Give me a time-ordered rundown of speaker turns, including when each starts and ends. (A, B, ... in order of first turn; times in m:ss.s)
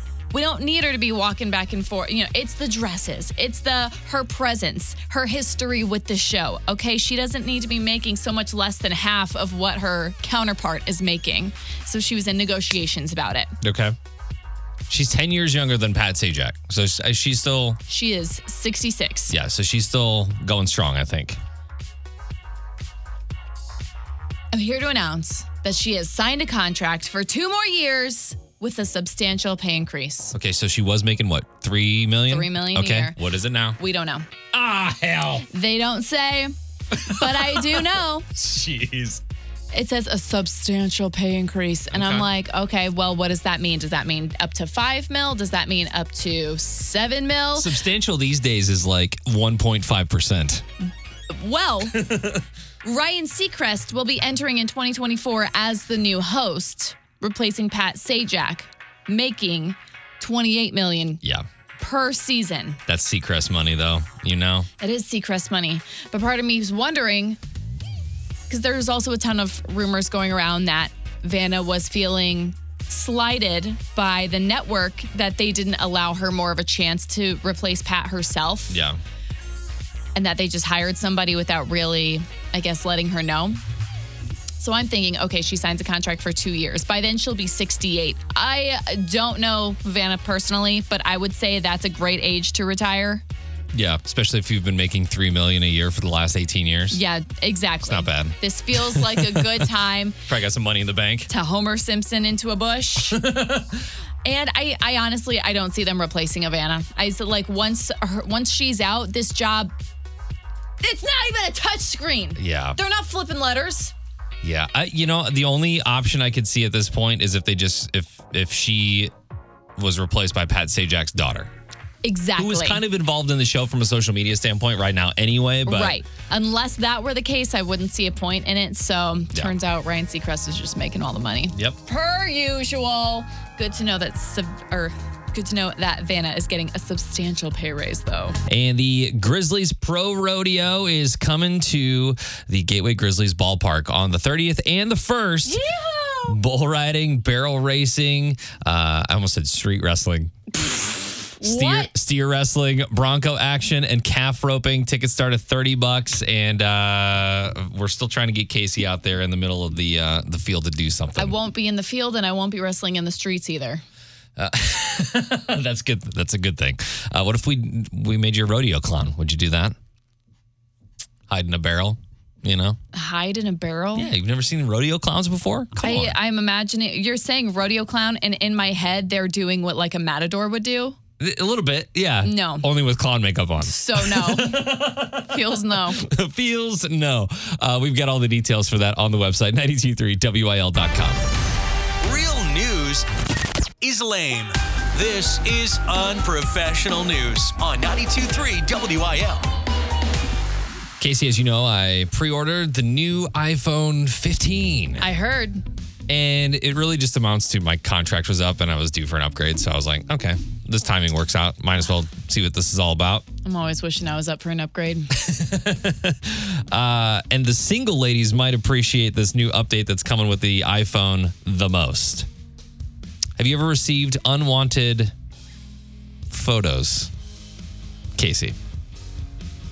0:00.3-0:13.5 A
0:13.6-0:14.0 B
0:14.9-0:17.8 B
0:17.9-0:19.3 A
0:19.3-0:21.4 B
0:24.5-0:30.4 A
0:30.3-0:33.8 B
0:32.3-0:33.2 A
0:33.8-0:34.3 A
0:34.5-0:35.5 B
0:35.5-0:38.3 A
0:36.9-0:39.2 B
0:39.7-0:47.7 A
0:41.9-0:42.3 B
0:47.6-0:50.7 B
0:51.3-0:52.0 A
0:51.9-0:52.4 B
0:52.8-1:01.2 A
1:01.8-1:02.8 A
1:02.9-1:04.7 B
1:04.8-1:07.4 A
1:08.5-1:18.8 A
1:18.7-1:19.0 B
1:20.2-1:23.6 A
1:24.6-1:33.2 A
1:33.7-1:37.0 B
1:36.9-1:40.2 A
1:37.8-1:39.7 B
1:40.3-1:41.3 B
1:41.3-1:43.2 A
1:43.1-1:43.9 B
1:44.2-1:49.7 A
1:50.8-1:53.9 A
1:52.4-1:52.8 B
1:54.4-1:59.1 B
1:59.8-2:01.5 B
2:02.0-2:02.8 A
2:02.4-2:06.0 B
2:05.7-2:18.4 A
2:11.5-2:11.8 B
2:18.5-2:25.6 B
2:25.4-2:26.4 A
2:26.3-2:30.4 B
2:31.4-2:31.9 A
2:31.4-2:41.4 B
2:41.2-2:43.8 A
2:44.4-2:49.8 B
2:51.3-2:52.8 B
2:52.9-2:54.1 A
2:54.0-2:56.2 B
2:55.8-3:01.0 A
3:01.2-3:11.3 B
3:02.2-3:02.7 A
3:03.6-3:06.0 A
3:12.0-3:13.1 C
3:13.8-3:19.5 C
3:21.0-3:25.1 B
3:25.0-3:25.6 A
3:26.1-3:33.3 B
3:33.4-3:35.1 A
3:35.1-3:42.3 B
3:43.4-3:45.1 B
3:46.3-3:47.1 B
3:48.2-3:48.6 B